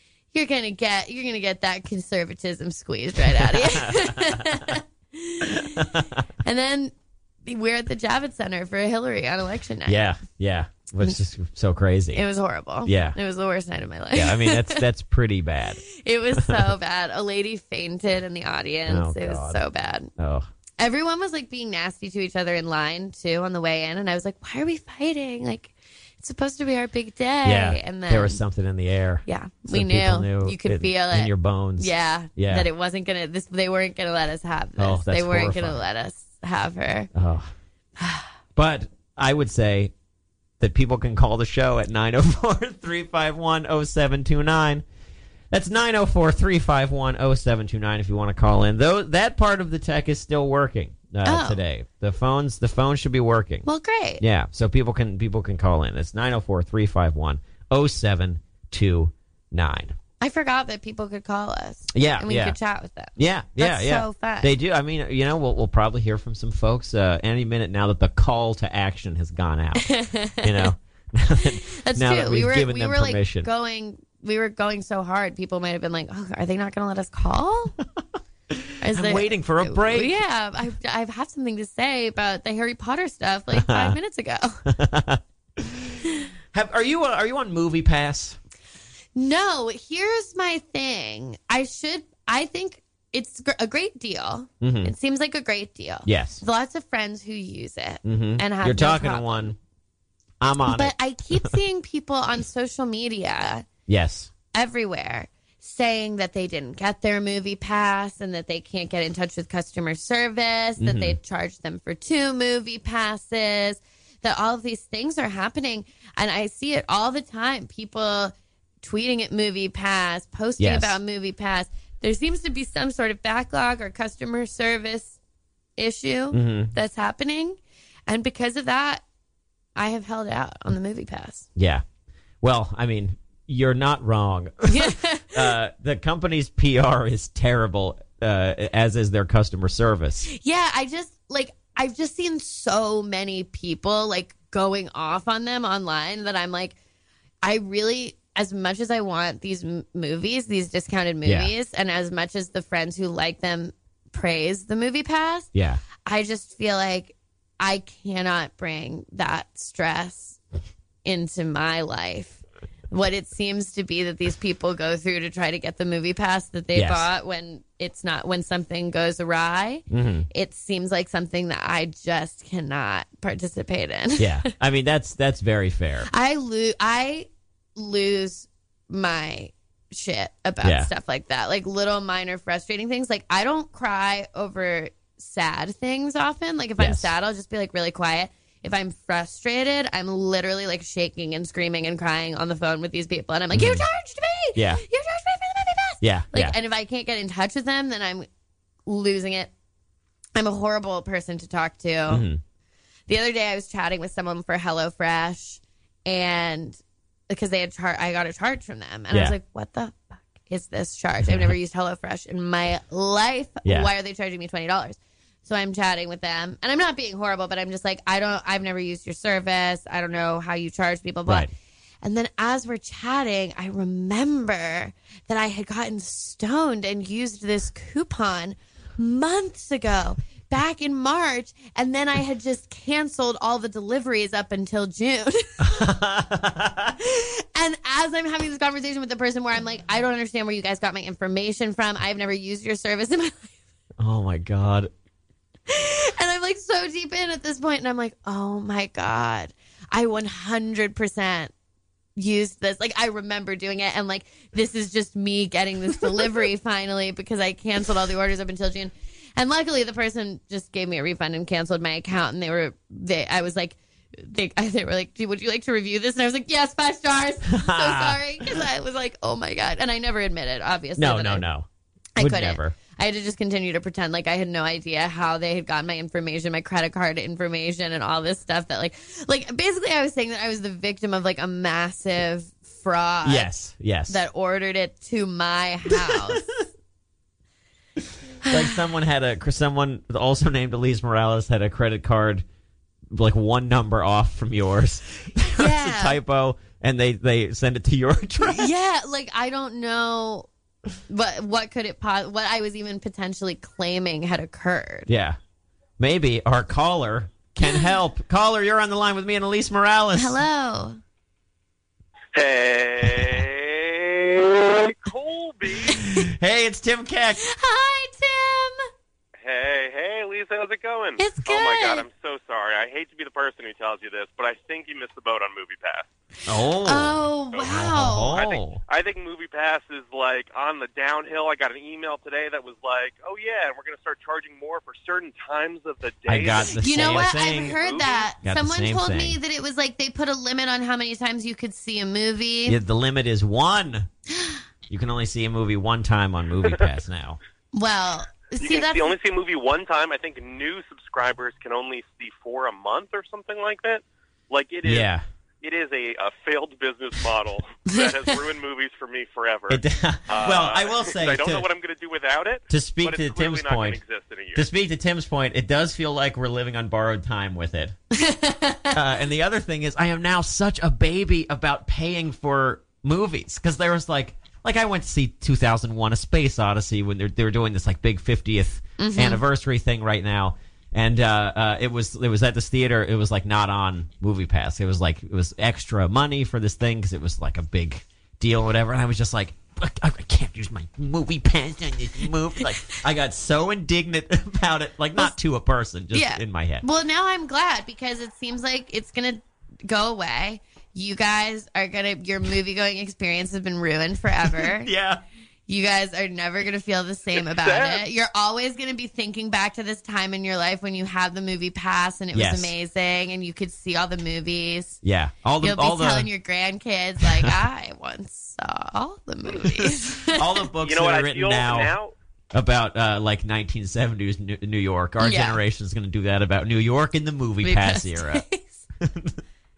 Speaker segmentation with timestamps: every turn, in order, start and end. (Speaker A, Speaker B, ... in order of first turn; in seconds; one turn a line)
Speaker A: 0.3-6.9
Speaker B: 3.3-4.8
Speaker B: 5.5-6.2
Speaker A: 7.4-10.0
Speaker B: 9.9-12.2
Speaker A: 12.1-14.8
Speaker B: 12.8-13.2
Speaker B: 14.1-15.8
Speaker A: 15.8-20.1
Speaker B: 16.4-16.7
Speaker B: 18.9-19.6
Speaker B: 20.2-20.5
Speaker A: 20.8-28.4
Speaker B: 27.4-32.7
Speaker A: 29.2-37.1
Speaker B: 34.8-35.8
Speaker B: 37.1-37.5
Speaker A: 38.0-38.3
Speaker B: 38.5-39.9
Speaker B: 40.6-44.8
Speaker B: 45.5-53.6
Speaker A: 51.2-51.6
Speaker A: 53.6-54.2
Speaker B: 54.2-59.9
Speaker A: 60.2-64.5
Speaker B: 61.9-62.6
Speaker B: 63.1-73.5
Speaker A: 69.8-70.7
Speaker A: 71.6-77.8
Speaker B: 78.5-80.2
Speaker A: 78.8-84.7
Speaker B: 83.5-84.0
Speaker B: 84.7-86.0
Speaker B: 86.5-88.4
Speaker A: 89.1-99.5
Speaker B: 94.6-94.9
Speaker B: 96.0-96.4
Speaker B: 98.0-99.5
Speaker B: 100.4-101.5
Speaker A: 100.7-103.7
Speaker B: 103.9-104.3
Speaker A: 104.5-125.2
Speaker B: 110.8-111.2
Speaker B: 120.6-121.0
Speaker A: 125.8-129.0
Speaker B: 126.3-126.7
Speaker A: 129.8-131.5
Speaker B: 131.6-131.8
Speaker B: 132.4-140.3
Speaker A: 134.7-135.5
Speaker A: 140.3-146.8
Speaker A: 147.4-155.5
Speaker B: 151.2-151.5
Speaker B: 155.5-155.8
Speaker A: 156.0-160.4
Speaker A: 161.0-174.5
Speaker B: 166.7-167.1
Speaker B: 169.9-170.3
Speaker B: 174.2-176.1
Speaker A: 176.1-198.3
Speaker B: 180.6-180.9
Speaker B: 186.8-187.1
Speaker B: 193.5-193.8
Speaker B: 194.5-194.8
Speaker B: 196.0-196.6
Speaker A: 198.9-199.5
Speaker A: 200.3-202.3
Speaker B: 202.1-202.4
Speaker A: 203.1-206.8
Speaker A: 207.3-221.5
Speaker B: 209.1-209.3
Speaker B: 211.2-211.5
Speaker B: 213.6-213.9
Speaker A: 222.0-235.8
Speaker B: 235.6-237.0
Speaker A: 237.0-243.5
Speaker B: 244.0-244.9
Speaker A: 245.7-251.5
Speaker A: 252.2-271.4
Speaker B: 267.5-268.5
Speaker B: 271.0-271.7
Speaker A: 272.2-283.5
Speaker B: 272.2-272.7
Speaker B: 283.2-284.2
Speaker A: 284.1-286.5
Speaker B: 285.9-286.4
Speaker A: 288.4-288.8
Speaker B: 288.4-292.4
Speaker B: 293.1-298.7
Speaker A: 295.5-296.2
Speaker A: 298.4-300.5
Speaker A: 301.1-305.1
Speaker B: 305.1-305.4
Speaker B: 306.0-310.4
Speaker A: 307.6-307.9
Speaker A: 310.1-311.0
Speaker C: 312.3-316.0
Speaker B: 316.0-317.4
Speaker A: 317.4-318.8
Speaker C: 319.4-326.1
Speaker A: 321.2-322.1
Speaker B: 326.4-328.8
Speaker A: 326.8-328.4
Speaker C: 327.5-338.3
Speaker B: 336.3-337.8
Speaker A: 336.7-342.8
Speaker B: 338.4-339.4
Speaker B: 342.7-344.1
Speaker B: 344.9-347.4
Speaker A: 347.7-349.1
Speaker C: 348.6-355.1
Speaker B: 354.8-355.2
Speaker C: 355.6-364.6
Speaker B: 359.7-361.7
Speaker B: 362.7-364.0
Speaker B: 364.5-367.9
Speaker A: 368.1-368.9
Speaker B: 368.9-396.8
Speaker A: 379.0-379.4
Speaker A: 396.1-404.9
Speaker B: 404.4-405.2
Speaker A: 405.7-415.0
Speaker C: 407.4-408.0
Speaker B: 412.3-412.7
Speaker B: 415.0-416.3
Speaker A: 415.6-420.7
Speaker B: 417.2-417.5
Speaker B: 419.6-421.9
Speaker C: 420.8-422.1
Speaker B: 422.5-428.4
Speaker A: 425.2-425.6
Speaker A: 427.6-428.8
Speaker B: 429.0-429.4